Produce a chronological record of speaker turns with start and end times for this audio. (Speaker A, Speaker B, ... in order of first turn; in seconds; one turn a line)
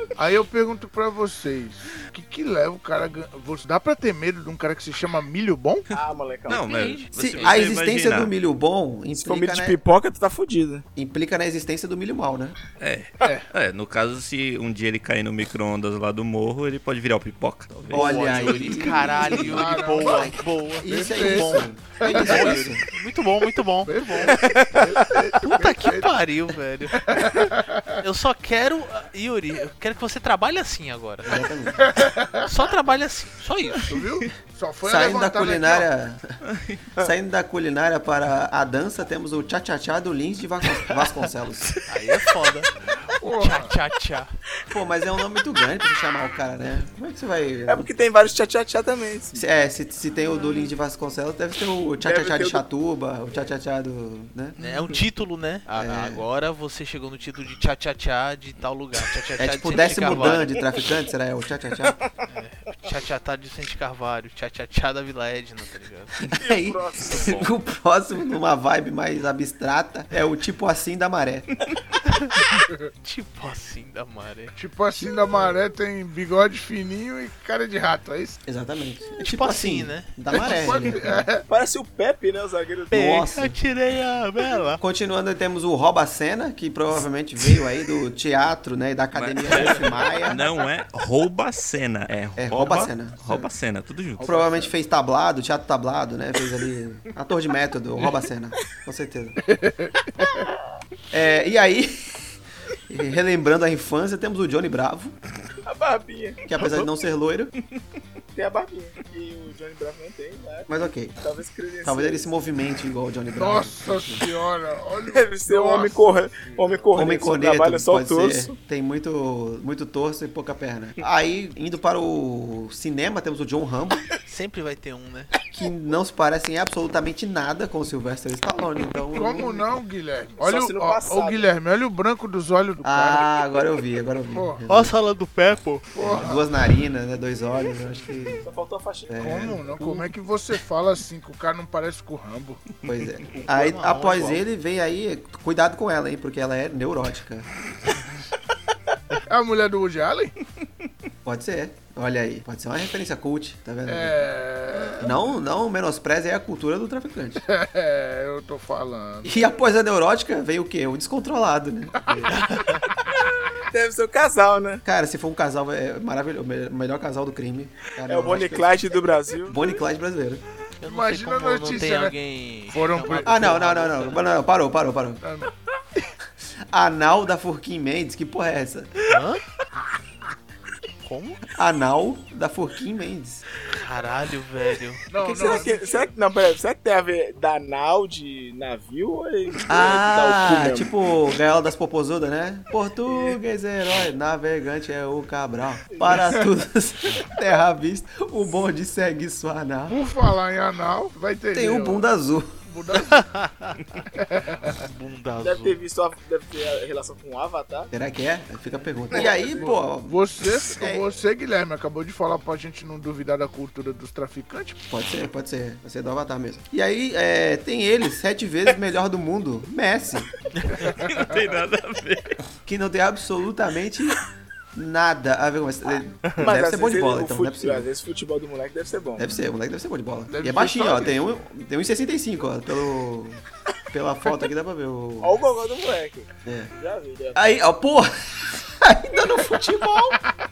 Speaker A: 0.2-5.9
Speaker B: 5.9-6.9
Speaker C: 6.5-8.3
Speaker D: 6.5-7.6
Speaker E: 7.2-9.8
Speaker B: 9.2-10.9
Speaker E: 11.0-12.6
Speaker C: 12.8-18.7
Speaker A: 13.2-13.5
Speaker E: 17.9-22.8
Speaker D: 17.9-31.4
Speaker A: 19.2-20.3
Speaker A: 20.9-22.6
Speaker A: 23.9-26.2
Speaker A: 26.9-28.0
Speaker E: 31.2-31.9
Speaker A: 31.8-32.5
Speaker D: 32.4-34.0
Speaker A: 33.7-35.9
Speaker E: 34.8-36.4
Speaker C: 36.4-36.8
Speaker E: 37.0-41.9
Speaker D: 41.9-44.3
Speaker A: 43.1-43.8
Speaker E: 44.7-47.9
Speaker B: 47.7-49.5
Speaker E: 49.4-54.6
Speaker B: 52.0-52.6
Speaker D: 54.6-60.6
Speaker B: 54.6-55.0
Speaker E: 55.8-56.2
Speaker E: 59.4-62.0
Speaker B: 60.2-60.8
Speaker D: 62.3-66.2
Speaker E: 66.3-71.5
Speaker B: 66.4-67.3
Speaker C: 67.1-67.5
Speaker D: 72.0-72.4
Speaker D: 73.0-74.5
Speaker A: 74.6-78.4
Speaker E: 78.5-81.3
Speaker D: 79.2-80.1
Speaker A: 80.3-81.5
Speaker B: 81.5-83.0
Speaker D: 82.9-84.8
Speaker E: 82.9-83.6
Speaker E: 84.8-90.4
Speaker C: 89.2-94.3
Speaker E: 92.4-93.5
Speaker A: 94.2-94.7
Speaker E: 94.2-99.4
Speaker A: 99.5-100.4
Speaker E: 101.1-102.2
Speaker E: 102.9-105.2
Speaker B: 105.7-106.6
Speaker E: 106.5-107.5
Speaker B: 108.3-112.3
Speaker E: 110.7-111.2
Speaker E: 111.8-114.3
Speaker A: 113.4-116.9
Speaker B: 115.1-118.5
Speaker E: 116.9-124.0
Speaker D: 124.3-125.3
Speaker E: 125.5-129.7
Speaker A: 129.1-133.2
Speaker B: 130.4-131.5
Speaker E: 132.8-134.9
Speaker A: 134.3-134.6
Speaker D: 134.7-135.9
Speaker A: 135.9-136.4
Speaker E: 136.0-138.4
Speaker B: 138.4-139.6
Speaker E: 139.1-139.6
Speaker A: 139.2-142.6
Speaker D: 139.8-140.0
Speaker E: 142.8-147.5
Speaker D: 143.3-144.4
Speaker A: 149.3-150.3
Speaker E: 151.2-154.3
Speaker A: 153.9-155.2
Speaker E: 154.9-157.4
Speaker A: 157.5-159.5
Speaker E: 159.2-162.4
Speaker D: 162.3-162.8
Speaker B: 162.9-164.8
Speaker E: 164.8-168.9
Speaker B: 168.1-169.8
Speaker E: 169.5-170.4
Speaker D: 170.8-174.2
Speaker A: 170.8-172.2
Speaker A: 172.7-173.7
Speaker E: 173.2-175.2
Speaker A: 175.2-175.5
Speaker E: 176.6-179.2
Speaker D: 179.1-179.4
Speaker D: 181.0-181.4
Speaker E: 181.5-183.4
Speaker D: 183.7-185.0
Speaker A: 185.1-186.1
Speaker B: 185.2-190.9
Speaker E: 189.7-200.0
Speaker B: 193.1-193.4
Speaker B: 195.9-196.4
Speaker A: 199.9-202.1
Speaker E: 201.5-202.6
Speaker A: 202.7-203.3
Speaker D: 202.9-203.8
Speaker A: 204.1-204.8
Speaker D: 204.7-205.8
Speaker B: 205.4-207.9
Speaker E: 207.9-211.2
Speaker B: 209.1-209.4
Speaker A: 209.2-214.8
Speaker E: 214.9-220.3
Speaker A: 220.8-221.1
Speaker C: 220.9-222.4
Speaker E: 222.7-224.2
Speaker E: 224.8-227.9
Speaker B: 226.4-229.3
Speaker E: 229.2-233.4
Speaker A: 230.3-231.3
Speaker E: 233.9-235.4
Speaker B: 235.2-237.4
Speaker E: 236.4-236.7
Speaker E: 237.3-240.2